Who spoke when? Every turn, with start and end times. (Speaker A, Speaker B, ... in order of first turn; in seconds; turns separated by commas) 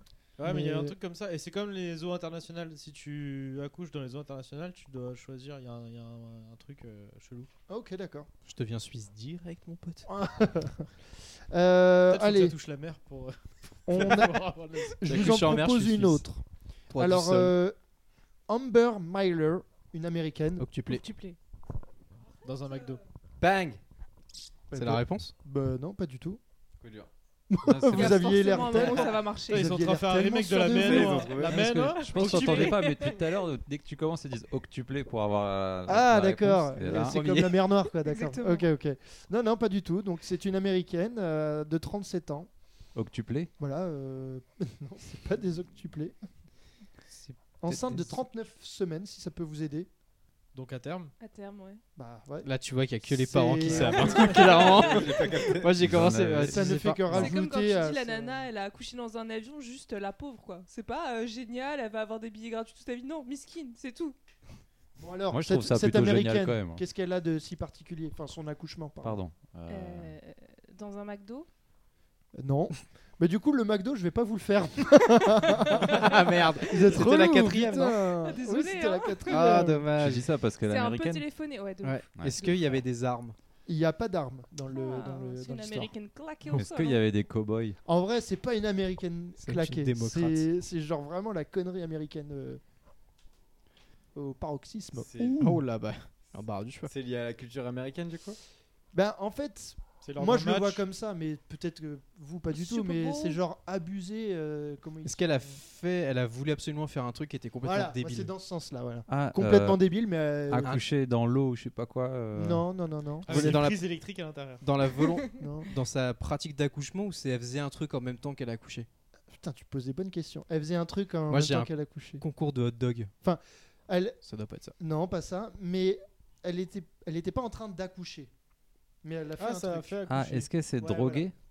Speaker A: 0.4-7.5, Speaker B: 0.4-0.9, Speaker B: 7.7-8.3, Speaker C: 8.4-10.1, Speaker B: 10.1-10.9, Speaker B: 11.5-12.6, Speaker A: 12.1-15.0, Speaker B: 13.8-17.8, Speaker C: 15.0-16.2, Speaker C: 16.9-17.6, Speaker B: 18.5-20.6, Speaker C: 20.6-21.0, Speaker D: 20.9-21.4, Speaker A: 22.4-23.0, Speaker D: 22.7-22.9, Speaker C: 23.4-23.8, Speaker B: 24.7-26.4, Speaker C: 24.7-25.3, Speaker E: 26.8-27.1, Speaker B: 27.5-31.4, Speaker F: 27.6-28.2, Speaker D: 27.9-29.7, Speaker A: 29.5-32.9, Speaker E: 30.7-31.7, Speaker F: 31.4-37.2, Speaker D: 31.9-33.2, Speaker B: 35.9-42.5, Speaker C: 36.8-37.8, Speaker D: 38.0-38.6, Speaker F: 42.9-43.5, Speaker B: 43.6-46.1, Speaker C: 47.1-48.2, Speaker B: 47.6-49.9, Speaker A: 50.5-51.1, Speaker D: 51.2-51.8, Speaker B: 52.0-52.5, Speaker C: 52.4-57.3, Speaker B: 53.0-54.6, Speaker D: 54.0-54.6, Speaker E: 54.0-55.8, Speaker F: 55.8-57.2, Speaker B: 56.5-58.5, Speaker D: 57.1-64.2, Speaker B: 65.0-69.2, Speaker F: 65.3-66.8, Speaker F: 69.0-70.1, Speaker D: 69.7-71.5, Speaker B: 72.4-79.9, Speaker C: 75.9-78.0, Speaker D: 78.2-79.7, Speaker C: 79.3-80.3, Speaker F: 79.8-81.2, Speaker D: 80.6-82.0, Speaker C: 81.8-83.3, Speaker F: 82.2-82.8, Speaker B: 83.7-85.9, Speaker D: 84.7-87.0, Speaker F: 86.5-87.8, Speaker B: 87.8-92.6, Speaker C: 89.4-90.5, Speaker B: 94.1-95.6, Speaker E: 94.9-95.4, Speaker C: 95.2-96.9, Speaker E: 96.9-98.4, Speaker B: 98.9-105.6, Speaker A: 100.0-100.8, Speaker D: 102.5-103.4, Speaker C: 105.0-108.3, Speaker B: 107.6-110.8, Speaker F: 109.1-109.8, Speaker F: 110.5-112.7, Speaker B: 112.3-113.6, Speaker A: 113.2-114.6, Speaker C: 113.3-113.8, Speaker C: 114.6-118.9, Speaker B: 115.4-115.7, Speaker B: 119.3-122.2, Speaker C: 121.3-123.1, Speaker B: 123.2-124.2, Speaker C: 124.2-124.7, Speaker B: 124.8-128.3, Speaker B: 129.0-130.0, Speaker A: 129.4-131.3, Speaker F: 130.1-131.3